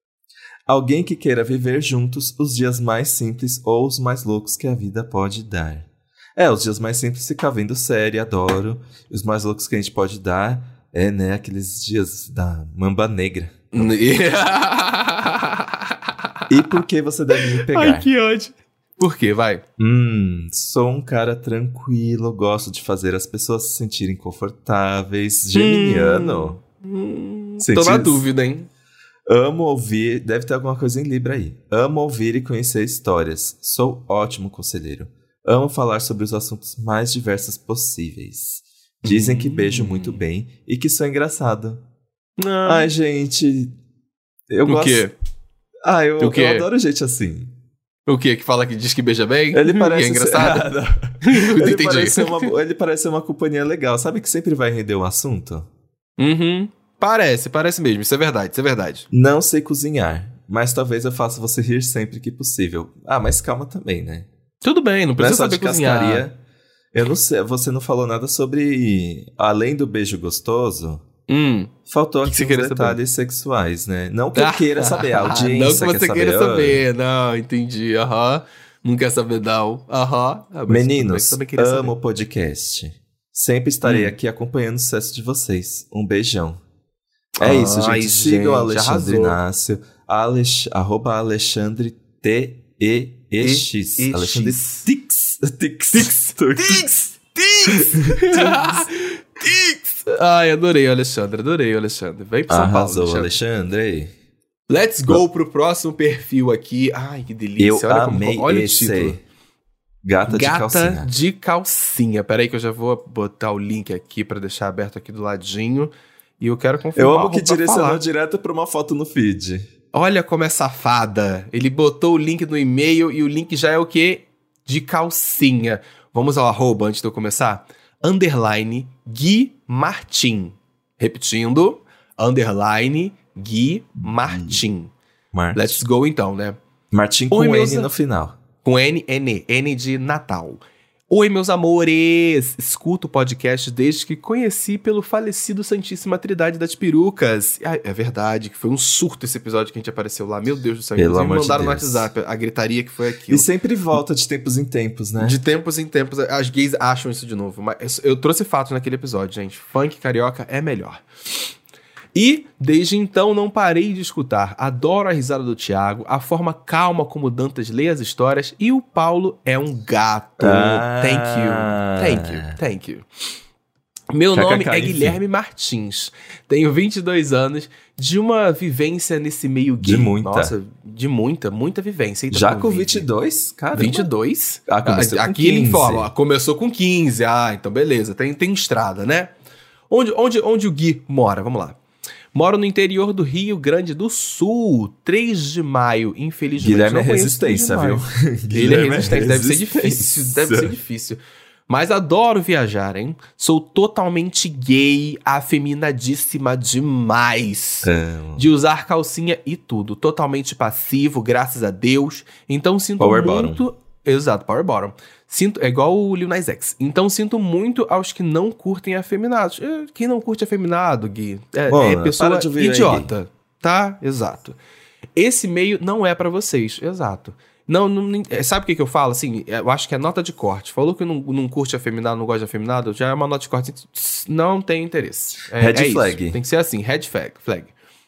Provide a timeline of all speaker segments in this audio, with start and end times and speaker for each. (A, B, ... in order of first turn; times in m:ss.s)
0:00.7-0:13.9 A
0:13.7-0:16.0 B
0:16.5-0:16.8 B
0:16.5-0:18.1 A
0:17.4-0:19.6 B
0:19.8-0:26.6 A
0:25.5-0:28.7 B
0:27.6-0:28.2 A
0:29.3-0:41.8 A
0:39.0-0:40.2 B
0:42.4-0:42.9 B
0:42.7-0:43.8 A
0:44.5-0:45.1 A
0:44.7-0:45.1 B
0:45.8-0:47.6 A
0:46.2-0:46.7 B
0:48.1-0:50.7 B
0:49.5-0:55.7 A
0:51.2-0:52.5 B
0:56.2-0:59.1 B
0:59.1-1:04.3 A
1:04.6-1:06.2 B
1:05.2-1:06.4 A
1:06.9-1:11.0 A
1:11.3-1:11.7 B
1:11.9-1:16.8 A
1:12.2-1:13.0 B
1:14.4-1:21.9 B
1:20.7-1:26.6 A
1:23.8-1:24.2 B
1:27.4-1:29.4 B
1:27.4-1:36.9 A
1:33.4-1:34.9 B
1:35.9-1:43.4 B
1:37.7-1:38.9 A
1:42.5-1:44.1 A
1:44.7-1:49.2 B
1:47.6-1:49.2 A
1:50.0-1:51.1 A
1:50.2-1:58.0 B
1:57.0-1:59.7 A
1:59.9-2:14.9 B
2:14.0-2:14.6 A
2:15.3-2:15.8 A
2:15.5-2:16.6 B
2:16.9-2:18.4 A
2:17.3-2:17.9 B
2:18.6-2:33.5 B
2:31.0-2:32.1 A
2:33.3-2:35.4 A
2:35.2-2:41.0 B
2:42.1-2:53.0 B
2:50.4-2:52.6 A
2:54.1-3:03.1 B
2:54.3-2:55.2 A
2:59.8-3:00.6 A
3:02.3-3:04.1 A
3:03.7-3:09.3 B
3:04.7-3:06.1 A
3:09.9-3:11.8 B
3:12.3-3:44.6 B
3:16.6-3:20.8 A
3:27.8-3:28.5 A
3:33.0-3:33.6 A
3:41.7-3:43.1 A
3:45.2-3:57.7 B
3:55.5-3:56.4 A